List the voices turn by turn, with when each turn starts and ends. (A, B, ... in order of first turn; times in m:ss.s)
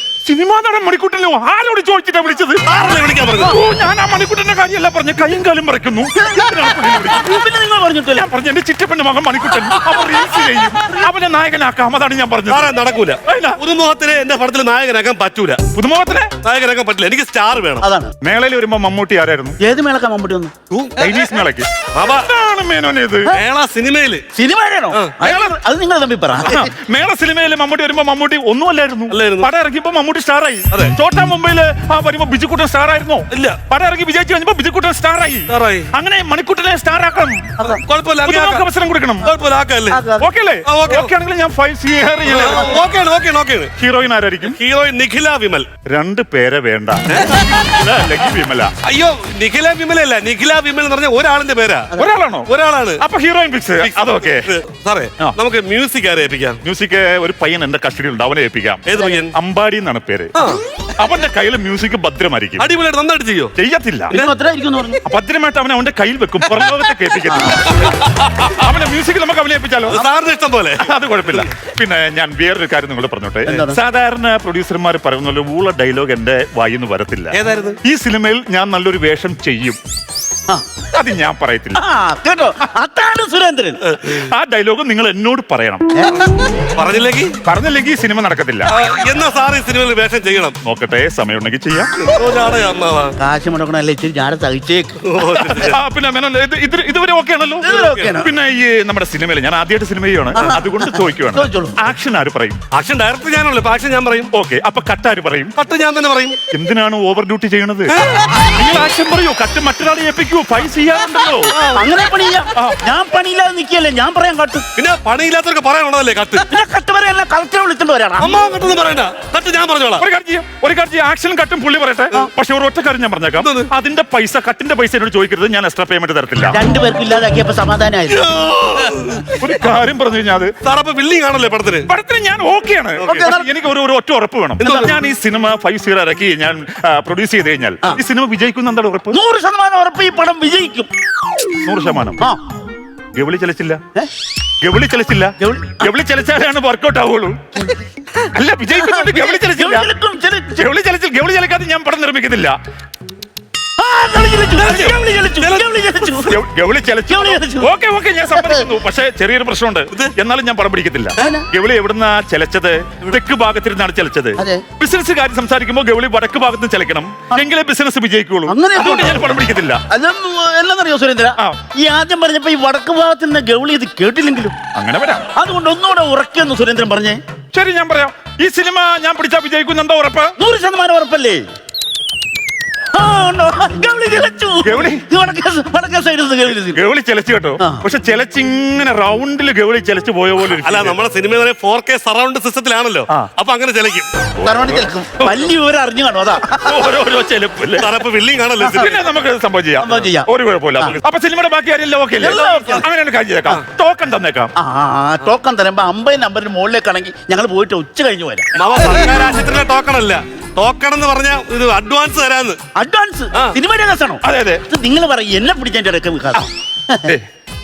0:00.2-0:02.6 A
0:02.7-0:03.6 B
0:03.3-0:07.4 A
0:06.2-0:08.3 C
0:08.2-0:12.7 A
0:12.5-0:15.6 B
0:13.2-0:13.6 A
0:15.7-0:16.3 A
0:16.4-0:17.8 B
0:17.8-0:18.1 C
0:18.2-0:19.6 A
0:19.6-0:20.5 C
0:20.7-0:21.2 B
0:21.0-0:23.3 A
0:21.9-0:22.3 B
0:23.3-0:24.2 B
0:24.4-0:26.7 C
0:25.2-0:25.6 A
0:26.4-0:37.5 A
0:29.1-0:29.5 B
0:33.3-0:33.6 B
0:35.5-0:35.9 B
0:37.6-0:38.7 B
0:38.2-0:39.3 A
0:39.2-0:40.0 B
0:39.9-0:40.3 C
0:40.2-0:42.8 A
0:40.7-0:41.1 B
0:42.3-0:43.7 B
0:43.8-0:44.6 A
0:44.5-0:45.7 B
0:45.9-0:48.7 A
0:47.1-0:47.5 B
0:48.8-0:51.9 B
0:52.0-0:54.5 A
0:52.5-0:53.0 B
0:53.8-0:56.6 B
0:56.6-1:00.3 A
0:58.9-0:59.3 B
1:00.4-1:00.6 B
1:01.0-1:02.7 A
1:02.6-1:03.5 B
1:03.6-1:04.2 A
1:04.1-1:05.0 C
1:05.0-1:07.8 A
1:07.3-1:07.6 C
1:07.7-1:08.5 B
1:08.4-1:10.0 A
1:09.9-1:11.4 B
1:10.8-1:19.8 A
1:13.5-1:13.8 C
1:17.3-1:17.8 B
1:20.9-1:21.8 A
1:21.8-1:23.8 C
1:23.9-1:24.2 B
1:24.0-1:25.9 A
1:26.0-1:26.2 C
1:26.8-1:27.4 B
1:27.4-1:28.7 A
1:28.7-1:30.6 B
1:30.6-1:31.9 A
1:32.0-1:33.2 B
1:33.2-1:35.0 C
1:35.0-1:35.8 B
1:35.4-1:42.6 A
1:37.6-1:38.3 C
1:37.7-1:38.2 B
1:40.3-1:41.8 C
1:42.8-1:44.3 B
1:44.3-1:45.5 A
1:45.6-1:46.4 B
1:46.5-1:51.5 A
1:51.5-1:51.9 B
1:51.7-1:54.6 C
1:54.8-1:56.5 B
1:56.5-1:58.4 C
1:58.2-2:00.1 B
2:00.0-2:06.6 A
2:03.4-2:03.7 B
2:06.5-2:08.3 C
2:08.1-2:09.4 B
2:09.4-2:10.5 A
2:10.6-2:11.9 B
2:11.9-2:19.2 A
2:13.0-2:13.3 B
2:13.1-2:13.5 C
2:14.6-2:15.0 B
2:14.6-2:14.9 C
2:19.1-2:20.9 C
2:21.6-2:22.2 A
2:23.1-2:23.8 A
2:24.6-2:27.4 A
2:25.4-2:25.9 C
2:28.3-2:29.9 A
2:28.8-2:30.6 C
2:30.6-2:32.6 A
2:33.8-2:36.4 C
2:34.6-2:36.0 B
2:34.6-2:35.0 A
2:36.2-2:49.8 A
2:37.1-2:37.7 C
2:38.4-2:38.7 C
2:41.2-2:41.4 C
2:44.4-2:44.6 C
2:48.5-2:49.3 C
2:49.9-2:54.6 C
2:54.8-2:55.3 A
2:55.4-2:57.2 C
2:57.5-3:00.4 A
3:00.4-3:01.4 C
3:02.9-3:06.8 C
3:04.6-3:05.0 A
3:06.6-3:11.0 A
3:07.6-3:07.8 C
3:10.6-3:14.1 B
3:14.4-3:15.4 A
3:14.4-3:16.9 C
3:16.5-3:17.9 A
3:17.8-3:18.9 B
3:18.6-3:19.0 C
3:18.7-3:24.5 A
3:19.8-3:21.0 C
3:22.2-3:22.8 C
3:24.6-3:28.5 C
3:28.6-3:32.6 B
3:32.8-3:37.1 C
3:34.2-3:34.6 A